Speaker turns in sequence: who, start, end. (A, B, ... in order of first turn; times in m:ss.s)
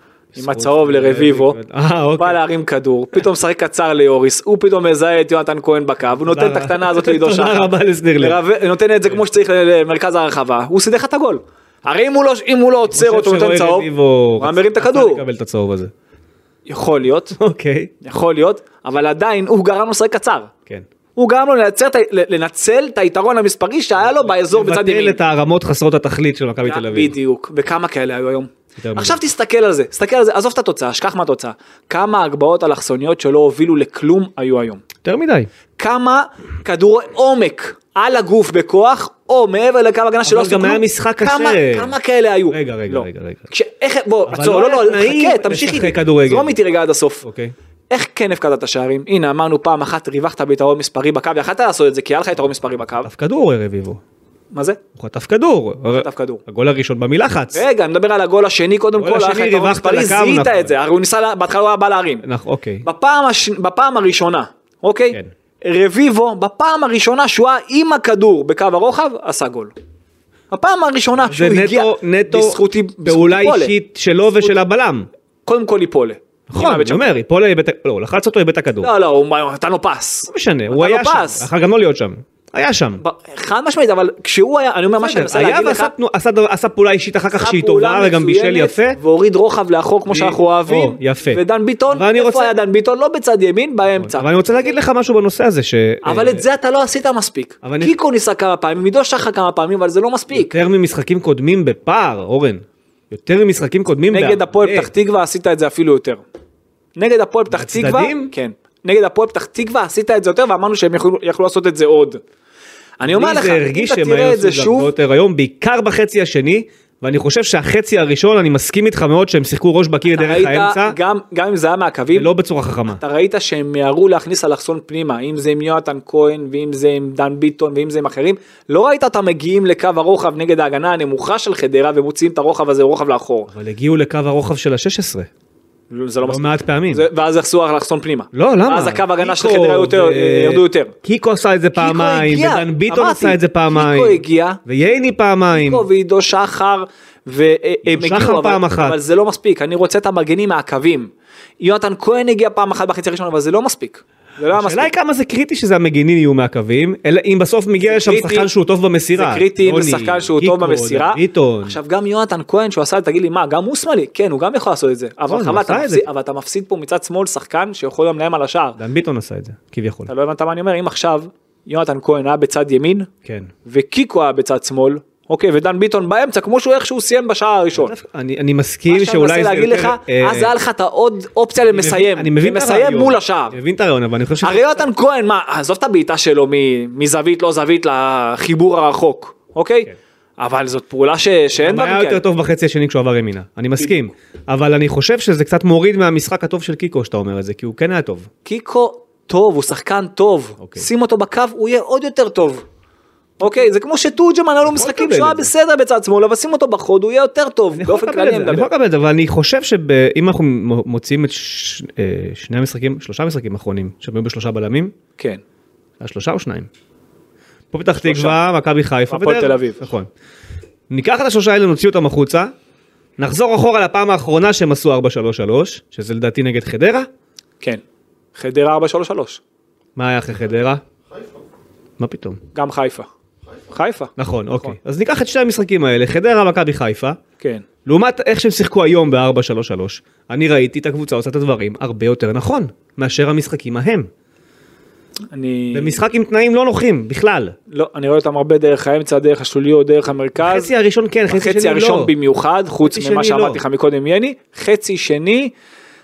0:00.3-0:02.4 A
0:00.4-0:01.6 B
0:02.2-0:15.2 B
0:06.2-0:08.4 A
0:12.9-0:15.9 A
0:16.6-0:17.4 B
0:17.4-0:17.9 A
0:18.0-0:20.5 B
0:21.2-0:25.2 B
0:24.1-0:27.1 A
0:26.6-0:34.8 B
0:28.8-0:29.2 A
0:35.0-0:35.5 A
0:35.8-0:47.2 B
0:40.2-0:41.9 A
0:42.5-0:43.5 A
0:44.3-0:46.6 A
0:47.2-0:47.5 A
0:47.9-0:53.1 B
0:53.0-0:54.0 A
0:54.5-0:54.8 B
0:55.0-0:57.6 A
0:55.9-0:56.4 B
0:57.5-1:02.2 B
0:59.0-1:00.7 A
1:02.2-1:02.8 A
1:02.8-1:09.7 B
1:10.5-1:13.7 B
1:11.3-1:15.1 A
1:15.4-1:17.2 B
1:16.5-1:18.9 A
1:18.8-1:21.5 B
1:20.3-1:23.0 A
1:23.0-1:25.9 B
1:25.0-1:29.0 A
1:27.3-1:34.4 B
1:30.1-1:32.5 A
1:34.0-1:36.4 A
1:36.0-1:40.6 B
1:37.6-1:38.0 A
1:40.3-1:44.9 A
1:44.1-1:46.2 B
1:47.0-1:52.2 B
1:47.5-1:48.3 A
1:53.0-1:54.9 B
1:53.0-2:01.0 A
2:00.1-2:02.3 B
2:02.1-2:03.0 A
2:02.9-2:13.5 B
2:13.5-2:15.3 A
2:15.9-2:20.9 B
2:16.2-2:17.1 A
2:18.3-2:25.8 A
2:21.7-2:24.6 B
2:25.5-2:34.9 B
2:27.8-2:29.0 A
2:34.5-2:41.8 A
2:37.8-2:38.5 B
2:39.1-2:48.8 B
2:45.3-2:46.1 A
2:48.8-2:50.1 A
2:50.1-2:53.1 B
2:53.2-2:53.5 A
2:53.6-2:57.9 B
2:57.7-3:00.5 A
2:58.9-3:03.6 B
3:01.7-3:04.8 A
3:04.4-3:12.2 B
3:11.6-3:18.3 A
3:18.4-3:22.6 B
3:20.6-3:20.8 A
3:23.4-3:28.7 B
3:24.6-3:25.5 A
3:27.7-3:34.9 A
3:36.0-3:36.7 A
3:37.7-3:40.1 A
3:38.0-3:38.4 B
3:39.1-3:39.8 B
3:40.9-3:42.5 A
3:43.2-3:47.1 A
3:48.3-3:49.4 B
3:50.0-3:50.8 A
3:52.0-3:52.4 A
3:52.5-3:53.1 B
3:53.7-3:54.8 B
3:54.2-3:57.2 A
3:57.4-3:57.6 B
3:57.8-4:04.1 A
4:05.3-4:06.0 B
4:05.7-4:07.5 A
4:07.7-4:10.7 B
4:10.4-4:12.1 A
4:11.3-4:15.5 B
4:12.8-4:13.6 A